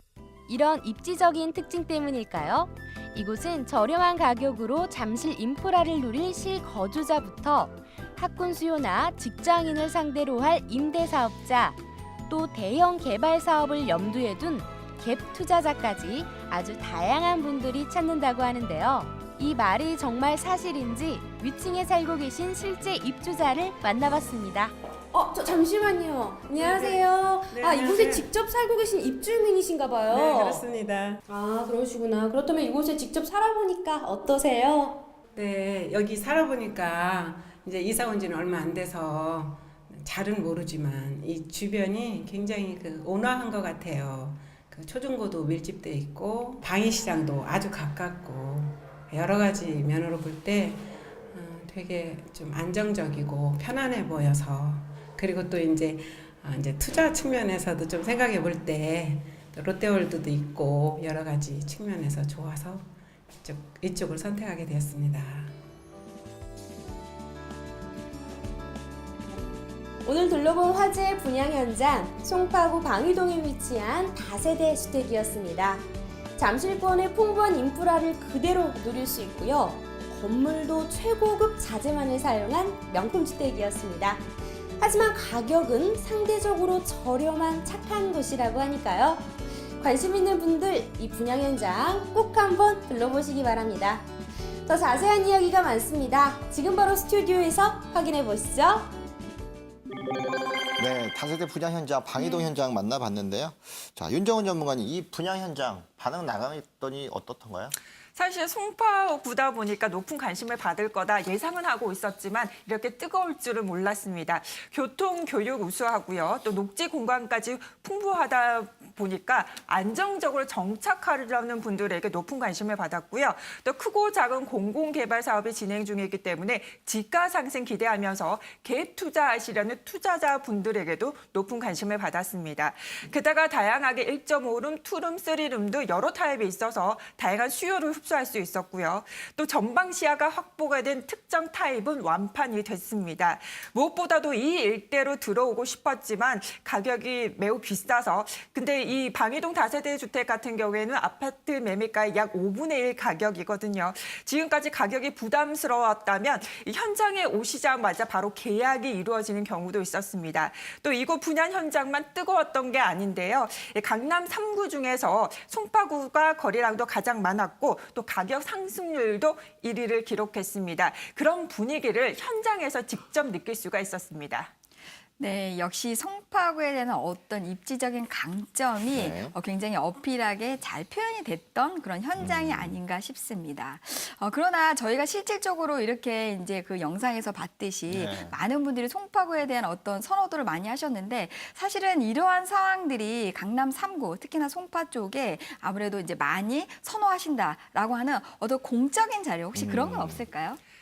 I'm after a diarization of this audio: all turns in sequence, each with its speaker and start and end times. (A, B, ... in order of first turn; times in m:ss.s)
0:00.5-0:11.8 A
0:12.3-0:24.7 A
0:25.1-0:30.6 B
0:26.5-0:28.3 C
0:30.1-0:31.2 C
0:31.3-0:35.0 B
0:35.3-1:05.6 C
1:10.0-1:15.8 B
1:16.4-1:24.2 B
1:24.8-1:29.2 B
1:29.8-1:34.0 B
1:34.7-1:38.9 B
1:40.8-1:47.8 D
1:42.2-1:42.5 E
1:48.2-2:54.5 F
2:55.2-3:20.6 E
2:58.9-2:59.4 D
3:02.2-3:02.8 D
3:07.9-3:08.4 D
3:19.6-3:20.2 D